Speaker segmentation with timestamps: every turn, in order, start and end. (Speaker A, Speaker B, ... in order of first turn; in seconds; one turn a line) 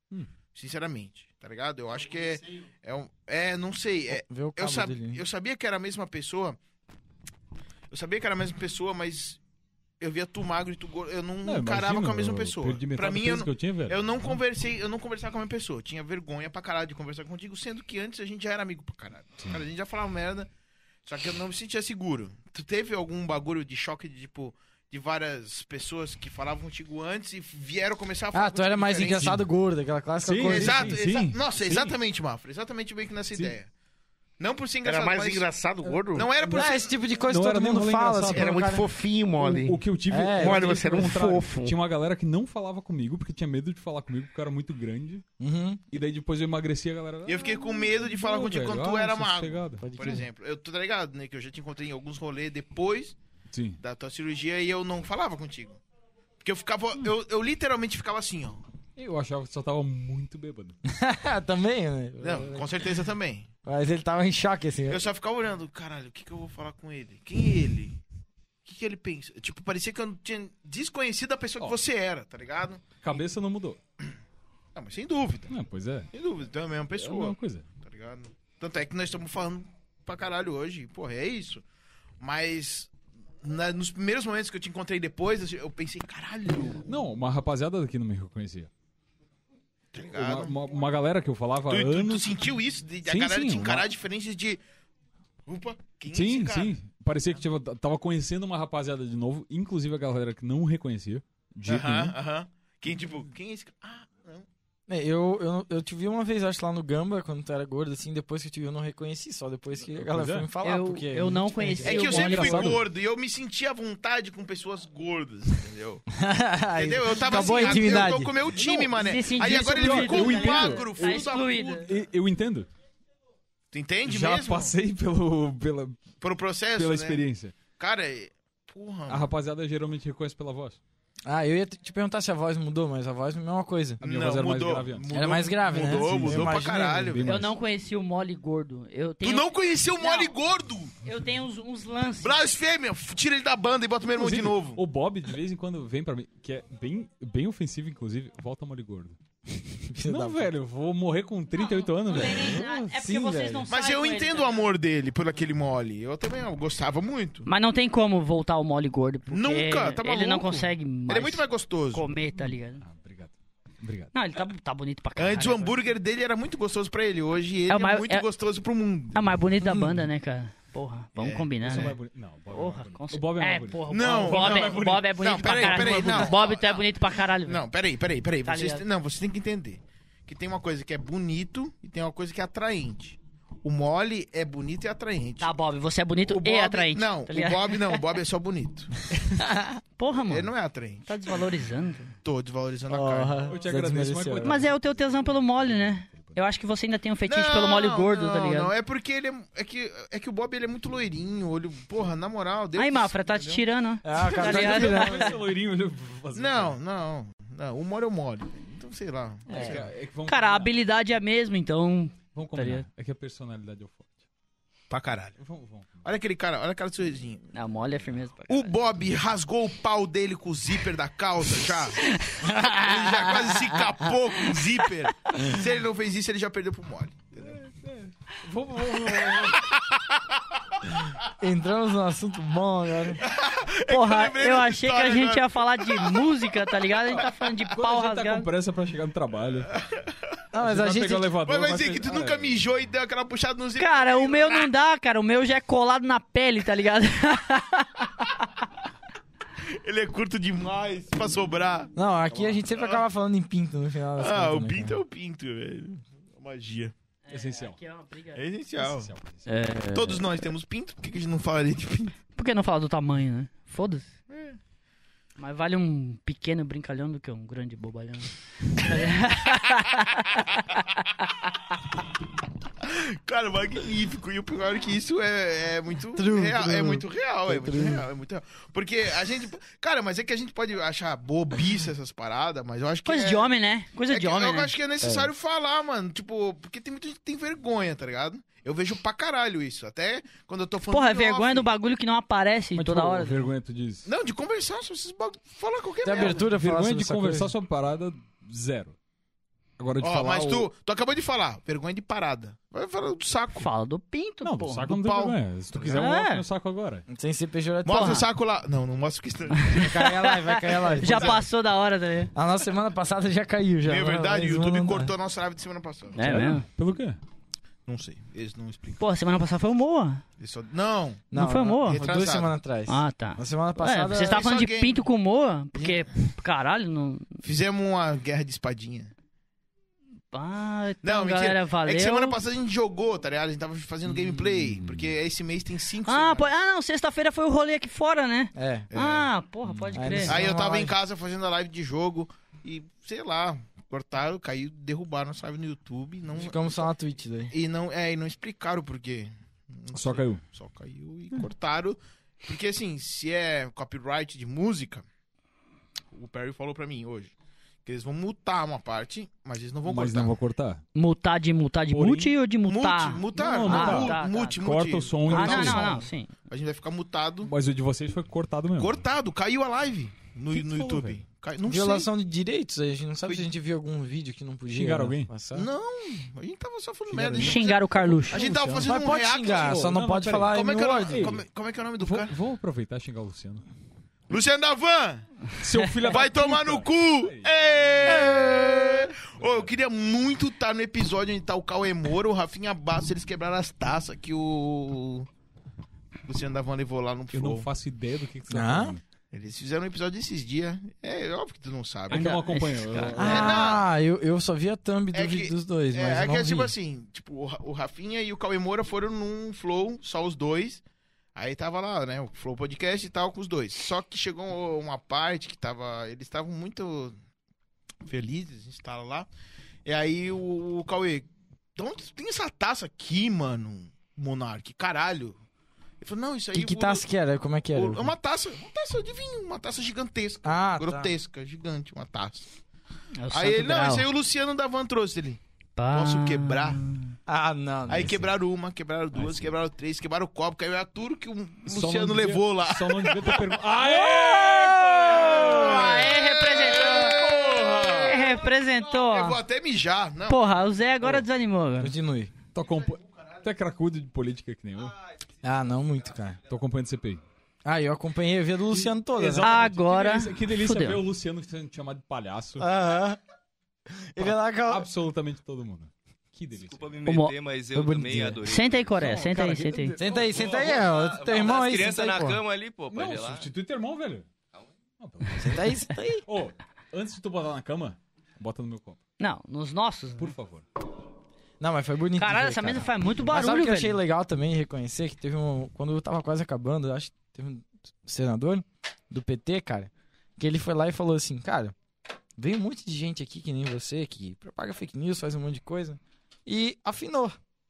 Speaker A: 0.5-6.6
Speaker B: 4.1-5.2
Speaker A: 7.9-9.4
Speaker A: 10.0-20.5
Speaker C: 11.4-14.4
Speaker A: 21.0-29.4
Speaker B: 28.3-31.0
Speaker C: 30.2-32.0
Speaker A: 30.4-33.7
Speaker A: 34.4-35.5
Speaker D: 34.8-36.3
Speaker A: 36.1-36.9
Speaker C: 36.4-38.6
Speaker B: 36.5-38.9
Speaker D: 38.3-39.8
Speaker C: 39.4-45.2
Speaker B: 40.1-41.0
Speaker D: 40.3-41.7
Speaker B: 45.4-45.8
Speaker C: 45.9-49.9
Speaker A: 47.2-53.2
Speaker B: 49.8-50.2
Speaker C: 53.5-53.8
Speaker A: 53.8-55.8
Speaker A: 56.4-58.6
Speaker C: 59.0-60.8
Speaker B: 60.9-62.8
Speaker A: 62.2-63.5
Speaker B: 63.6-65.0
Speaker A: 64.9-68.0
Speaker A: 68.6-72.9
Speaker C: 73.0-73.8
Speaker A: 74.7-75.5
Speaker C: 75.5-76.1
Speaker A: 76.1-81.6
Speaker C: 76.9-77.7
Speaker A: 82.2-82.9
Speaker A: 83.4-86.9
Speaker C: 86.9-88.7
Speaker A: 89.9-90.5
Speaker C: 90.1-92.4
Speaker A: 91.7-94.6
Speaker C: 93.0-93.9
Speaker A: 95.5-96.8
Speaker C: 96.1-102.1
Speaker A: 101.7-104.5
Speaker B: 104.9-112.0
Speaker C: 109.9-110.5
Speaker E: 110.6-112.7
Speaker A: 111.8-116.0
Speaker C: 111.9-112.8
Speaker B: 116.1-118.4
Speaker A: 116.7-121.9
Speaker E: 117.3-121.9
Speaker C: 119.5-122.7
Speaker A: 123.7-124.7
Speaker C: 124.0-126.1
Speaker A: 126.2-127.2
Speaker C: 126.7-127.5
Speaker A: 127.8-129.3
Speaker C: 129.1-130.8
Speaker B: 131.2-134.0
Speaker C: 134.0-135.1
Speaker A: 134.0-137.5
Speaker B: 135.1-137.2
Speaker C: 135.9-137.5
Speaker E: 137.2-140.3
Speaker A: 139.2-140.9
Speaker E: 141.0-142.4
Speaker A: 142.2-144.8
Speaker C: 144.1-149.2
Speaker B: 149.8-150.5
Speaker C: 150.0-152.6
Speaker E: 151.6-154.7
Speaker B: 152.4-153.7
Speaker A: 153.7-157.5
Speaker E: 157.4-162.8
Speaker A: 159.3-162.1
Speaker C: 162.8-164.1
Speaker E: 164.1-165.8
Speaker A: 165.2-169.2
Speaker E: 167.7-168.2
Speaker E: 169.1-172.0
Speaker B: 169.6-169.9
Speaker A: 171.2-171.9
Speaker C: 171.6-176.3
Speaker E: 172.5-177.6
Speaker A: 173.9-185.5
Speaker E: 178.4-178.8
Speaker E: 185.4-188.0
Speaker A: 186.2-189.0
Speaker B: 189.4-189.8
Speaker E: 190.0-190.5
Speaker A: 190.2-191.1
Speaker E: 191.1-192.1
Speaker A: 192.2-193.5
Speaker B: 192.9-194.6
Speaker C: 193.5-196.4
Speaker E: 194.4-198.7
Speaker A: 197.2-203.6
Speaker E: 202.7-205.3
Speaker B: 204.0-205.3
Speaker C: 204.3-206.8
Speaker A: 206.3-209.8
Speaker E: 209.5-212.8
Speaker C: 209.5-210.7
Speaker C: 212.3-214.1
Speaker A: 214.9-215.3
Speaker C: 215.4-216.1
Speaker A: 216.0-217.5
Speaker E: 217.5-218.7
Speaker A: 218.5-222.0
Speaker E: 222.0-222.6
Speaker A: 222.6-227.6
Speaker C: 227.5-229.7
Speaker A: 229.2-230.2
Speaker B: 231.4-233.2
Speaker A: 233.2-237.3
Speaker E: 233.9-238.5
Speaker C: 237.2-239.7
Speaker A: 239.8-240.1
Speaker B: 240.5-241.3
Speaker C: 240.6-242.6
Speaker A: 241.4-244.7
Speaker E: 243.8-248.3
Speaker A: 249.6-251.9
Speaker B: 251.9-255.0
Speaker A: 252.7-253.0
Speaker A: 254.2-256.9
Speaker E: 257.3-258.4
Speaker C: 257.3-257.8
Speaker A: 258.3-259.1
Speaker C: 258.8-259.5
Speaker E: 259.4-260.2
Speaker A: 259.9-262.1
Speaker E: 262.3-264.1
Speaker A: 264.3-264.6
Speaker E: 265.4-270.6
Speaker A: 272.8-283.5
Speaker B: 276.1-278.1
Speaker E: 283.0-284.7
Speaker A: 284.1-291.7
Speaker B: 285.0-285.3
Speaker E: 290.9-293.5
Speaker C: 292.7-294.1
Speaker A: 294.1-296.5
Speaker B: 296.0-297.5
Speaker C: 296.1-298.9
Speaker C: 299.8-300.7
Speaker A: 300.0-303.7
Speaker E: 303.5-304.9
Speaker C: 304.4-307.1
Speaker A: 304.9-306.0
Speaker E: 305.9-306.4
Speaker B: 307.1-308.2
Speaker A: 307.8-310.3
Speaker E: 307.9-308.3
Speaker E: 309.6-312.3
Speaker B: 309.8-311.4
Speaker A: 310.9-311.4
Speaker B: 312.3-315.1
Speaker A: 313.8-316.2
Speaker E: 316.1-316.7
Speaker C: 316.2-317.2
Speaker A: 317.9-319.0
Speaker E: 319.0-320.2
Speaker A: 320.4-322.5
Speaker B: 321.3-324.3
Speaker E: 321.3-322.0
Speaker E: 322.9-327.4
Speaker A: 324.2-325.0
Speaker A: 327.4-329.1
Speaker E: 330.3-332.4
Speaker A: 331.0-336.5
Speaker C: 334.8-335.1
Speaker E: 336.0-340.4
Speaker B: 338.5-338.9
Speaker A: 338.9-339.3
Speaker C: 339.6-340.4
Speaker B: 339.9-340.9
Speaker A: 340.2-346.9
Speaker B: 346.4-347.5
Speaker A: 347.5-355.1
Speaker C: 349.9-350.4
Speaker A: 356.1-357.3
Speaker A: 357.8-360.3
Speaker C: 359.9-360.8
Speaker E: 360.9-364.6
Speaker C: 361.9-362.3
Speaker A: 362.6-367.5
Speaker C: 363.3-366.0
Speaker E: 365.2-366.3
Speaker C: 367.4-369.0
Speaker A: 368.8-372.1
Speaker C: 370.5-371.2
Speaker B: 371.6-375.7
Speaker C: 374.7-375.3
Speaker A: 375.5-379.9
Speaker C: 377.1-378.9
Speaker E: 377.3-378.5
Speaker B: 378.5-381.4
Speaker C: 379.5-381.4
Speaker A: 380.5-382.3
Speaker C: 382.0-383.6
Speaker A: 384.3-385.3
Speaker C: 385.6-388.5
Speaker A: 386.0-395.3
Speaker C: 389.2-389.7
Speaker A: 396.2-397.7
Speaker C: 397.3-399.0
Speaker B: 398.5-399.0
Speaker A: 399.3-402.4
Speaker C: 402.1-403.6
Speaker E: 402.1-403.6
Speaker B: 403.1-406.7
Speaker A: 403.2-403.9
Speaker A: 405.1-410.8
Speaker A: 411.3-417.1
Speaker A: 418.0-419.3
Speaker A: 419.8-425.4
Speaker A: 426.0-427.1
Speaker B: 426.5-428.1
Speaker A: 427.7-432.5
Speaker B: 430.4-431.1
Speaker E: 433.2-434.1
Speaker A: 433.3-436.8
Speaker E: 435.8-437.1
Speaker B: 437.3-438.3
Speaker A: 437.9-443.6
Speaker C: 439.1-439.5
Speaker C: 441.6-445.7
Speaker B: 444.5-445.8
Speaker A: 445.1-448.3
Speaker E: 445.4-449.4
Speaker A: 449.0-450.6
Speaker E: 450.3-451.9
Speaker B: 451.8-452.3
Speaker C: 452.5-454.9
Speaker B: 455.4-456.4
Speaker C: 456.5-457.2
Speaker B: 457.6-459.6
Speaker C: 458.7-462.7
Speaker E: 459.4-461.0
Speaker B: 462.6-463.2
Speaker B: 464.1-464.9
Speaker C: 464.2-467.0
Speaker F: 466.6-469.0
Speaker E: 467.1-467.3
Speaker B: 467.7-468.4
Speaker E: 468.4-470.0
Speaker C: 469.0-470.7
Speaker B: 470.0-472.4
Speaker F: 470.0-473.5
Speaker C: 472.9-474.3
Speaker C: 475.0-479.0
Speaker B: 475.4-476.2
Speaker E: 479.2-480.3
Speaker C: 480.2-480.6
Speaker B: 481.6-491.7
Speaker E: 482.2-484.0
Speaker B: 492.4-497.4